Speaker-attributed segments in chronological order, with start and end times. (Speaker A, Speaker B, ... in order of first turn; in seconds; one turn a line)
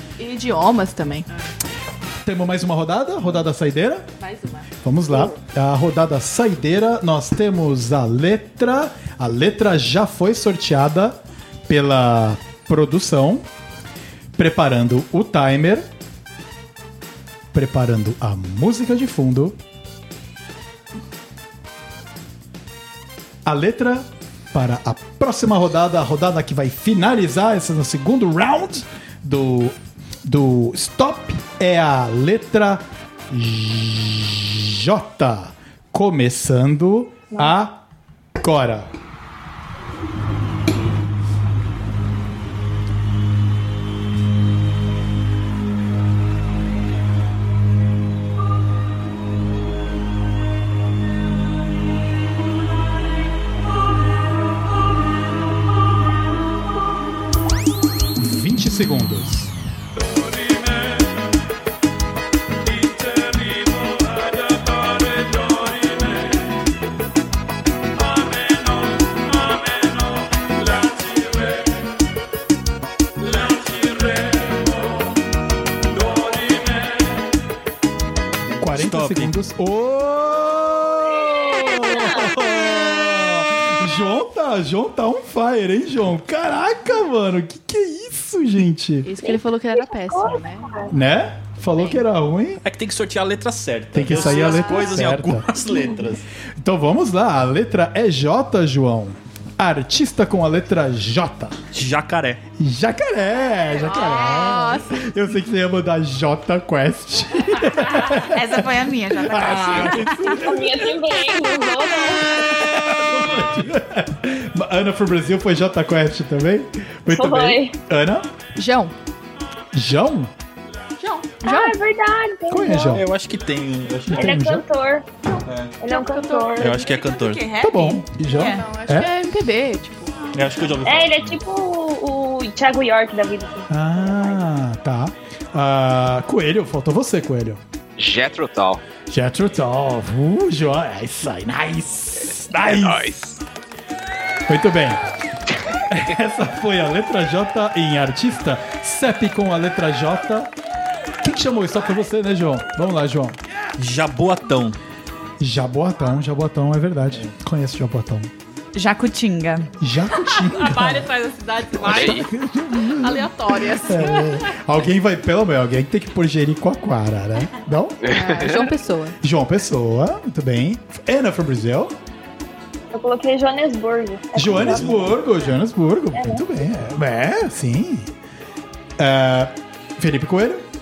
Speaker A: 0.2-1.3
Speaker B: 2.2-4.1
Speaker A: 4.2-4.7
Speaker B: 4.8-11.2
Speaker B: 11.7-13.4
Speaker B: 14.4-15.9
Speaker B: 17.5-19.6
Speaker B: 23.4-37.8
Speaker B: 38.4-38.9
Speaker B: 58.1-59.5
Speaker C: 63.2-64.3
Speaker C: 65.3-66.0
Speaker C: 73.3-74.3
Speaker C: 78.6-79.3
Speaker B: 78.6-89.1
Speaker D: 81.2-82.3
Speaker A: 89.0-90.9
Speaker D: 89.2-90.9
Speaker B: 90.9-92.6
Speaker C: 92.6-96.3
Speaker B: 93.9-95.5
Speaker D: 95.7-96.1
Speaker B: 96.6-101.6
Speaker C: 101.7-102.4
Speaker B: 102.6-108.7
Speaker A: 103.7-105.0
Speaker E: 108.1-110.4
Speaker B: 109.2-110.9
Speaker D: 110.2-112.6
Speaker B: 112.6-118.3
Speaker D: 117.1-117.7
Speaker A: 118.6-118.9
Speaker B: 119.7-120.3
Speaker A: 121.0-121.8
Speaker D: 121.4-123.0
Speaker B: 122.5-123.0
Speaker C: 122.9-124.4
Speaker B: 124.1-124.7
Speaker D: 124.1-125.1
Speaker C: 125.4-125.8
Speaker D: 125.8-126.7
Speaker A: 125.8-126.6
Speaker C: 126.6-127.5
Speaker E: 126.6-128.6
Speaker B: 127.6-129.1
Speaker A: 128.2-130.1
Speaker C: 130.3-131.4
Speaker D: 130.8-134.4
Speaker B: 133.7-137.6
Speaker F: 138.0-138.8
Speaker B: 139.1-143.1
Speaker F: 142.6-143.4
Speaker B: 144.5-145.1
Speaker B: 145.9-150.5
Speaker B: 151.2-153.4
Speaker C: 153.8-154.8
Speaker B: 155.4-158.3
Speaker E: 158.7-159.7
Speaker B: 159.8-161.1
Speaker A: 160.1-162.3
Speaker F: 161.8-162.2
Speaker B: 161.8-168.0
Speaker A: 162.8-164.6
Speaker F: 168.0-168.7
Speaker A: 168.1-169.2
Speaker B: 169.2-171.9
Speaker D: 172.9-175.2
Speaker B: 174.3-178.1
Speaker C: 174.5-175.1
Speaker D: 176.1-176.4
Speaker B: 179.0-180.6